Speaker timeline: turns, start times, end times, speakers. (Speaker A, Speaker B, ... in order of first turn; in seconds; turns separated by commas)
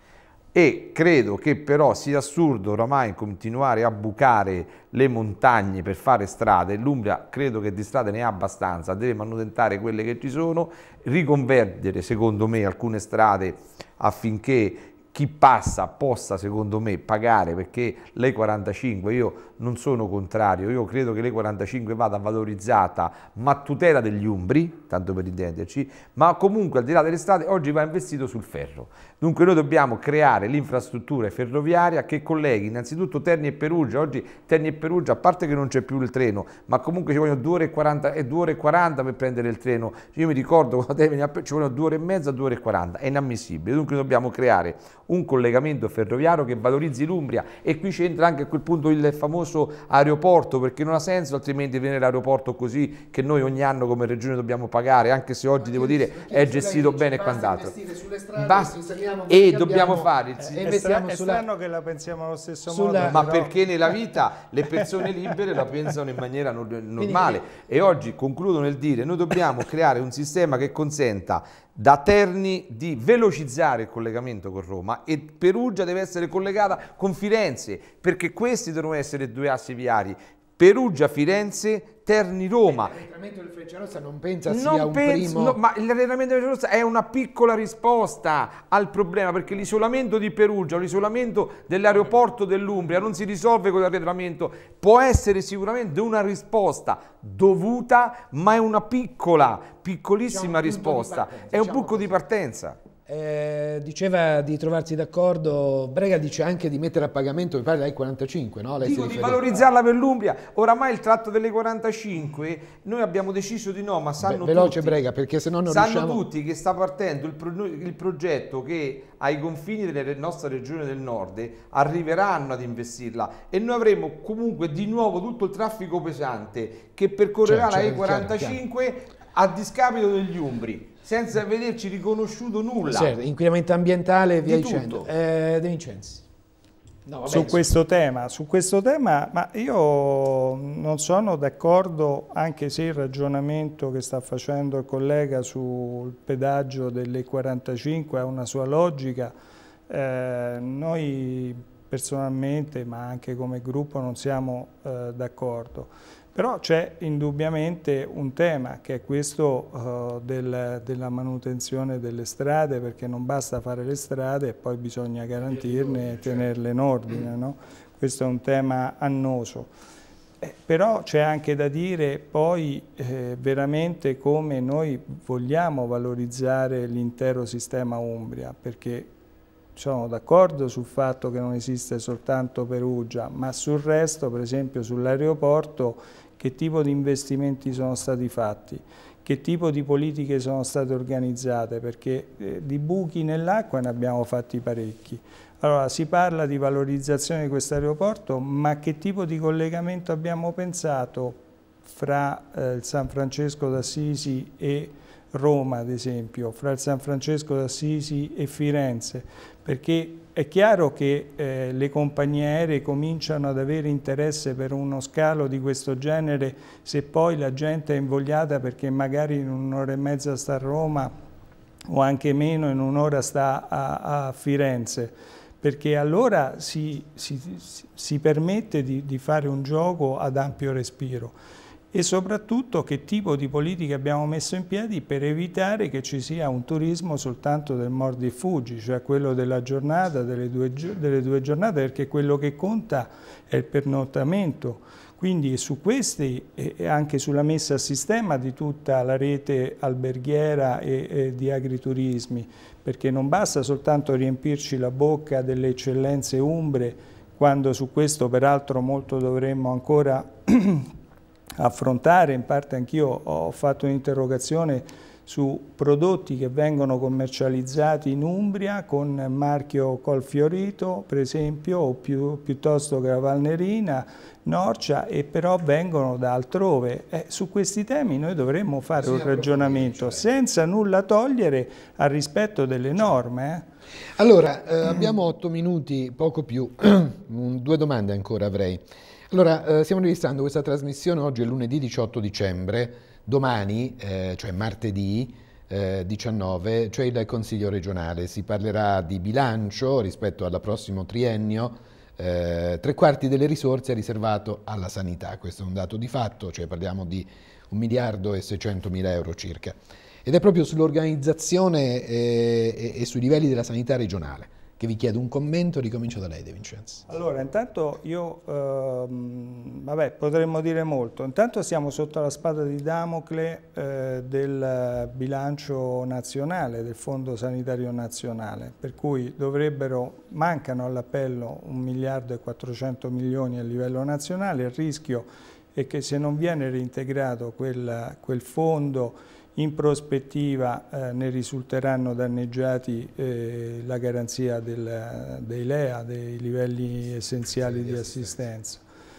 Speaker A: 0.5-57.7, Speaker B: 55.6-61.5, Speaker A: 58.4-58.8, Speaker A: 59.3-60.6, Speaker C: 60.4-63.5, Speaker B: 62.7-63.3, Speaker A: 63.1-83.0, Speaker B: 67.0-67.4, Speaker B: 82.7-85.6, Speaker A: 84.5-102.8, Speaker B: 100.3-102.2, Speaker B: 103.1-109.7, Speaker A: 108.8-115.0, Speaker B: 114.2-116.2, Speaker A: 115.7-133.1, Speaker B: 127.5-128.6, Speaker B: 132.9-136.2, Speaker A: 134.4-135.1, Speaker B: 137.1-137.7, Speaker C: 137.3-149.3, Speaker C: 149.9-169.7, Speaker B: 165.7-166.2, Speaker C: 170.4-179.1, Speaker C: 179.8-221.1, Speaker C: 221.9-231.3, Speaker C: 231.9-260.9, Speaker C: 261.6-283.6, Speaker B: 279.0-280.3, Speaker B: 284.2-317.1, Speaker C: 317.1-348.8, Speaker B: 347.5-348.4